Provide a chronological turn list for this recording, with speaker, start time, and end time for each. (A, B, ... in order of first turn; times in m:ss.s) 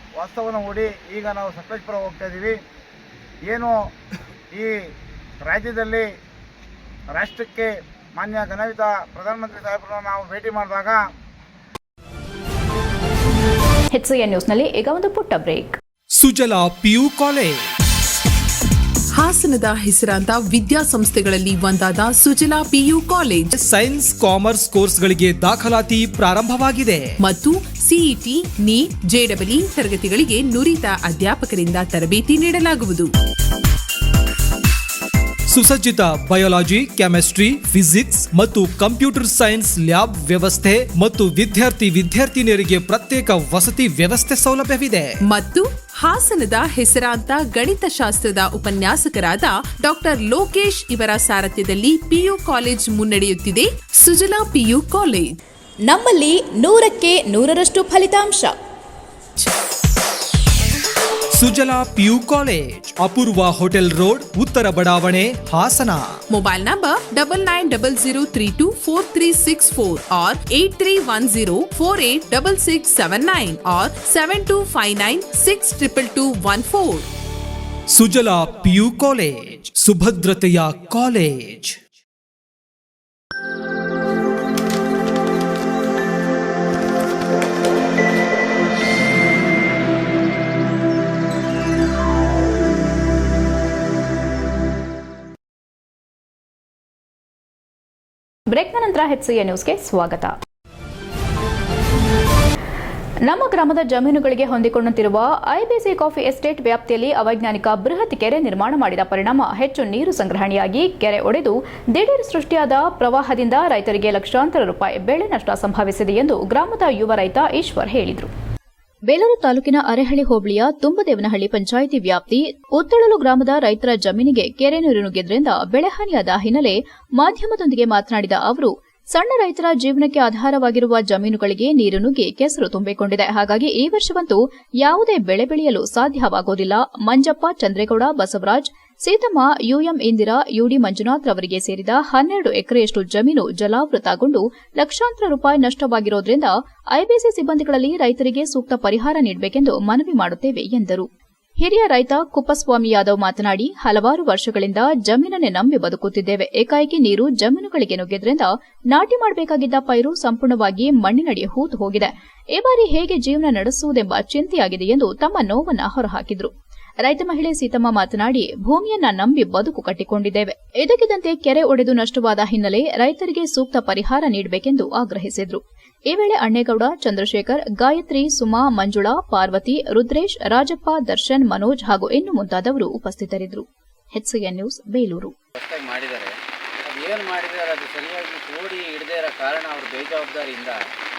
0:00.2-0:02.6 A
0:03.4-0:03.8 A
0:05.4-0:06.1 A
0:07.1-0:11.0 A
0:13.9-0:15.8 B
0:16.2-0:17.7 C
0:19.2-0:23.5 D
0:23.5-0:27.1 C
0:27.2-0:33.1 D
0:35.5-0:45.1 C
0:45.2-0:55.4 D
0:55.9-0:58.5 B
1:01.4-1:06.2 C
1:06.3-1:17.1 D
1:17.9-1:21.8 C
1:38.5-1:40.3 B
1:43.2-1:58.3 B
1:59.1-2:31.1 B
2:31.6-3:05.3 B
3:05.6-3:06.3 E
3:06.9-3:10.8 E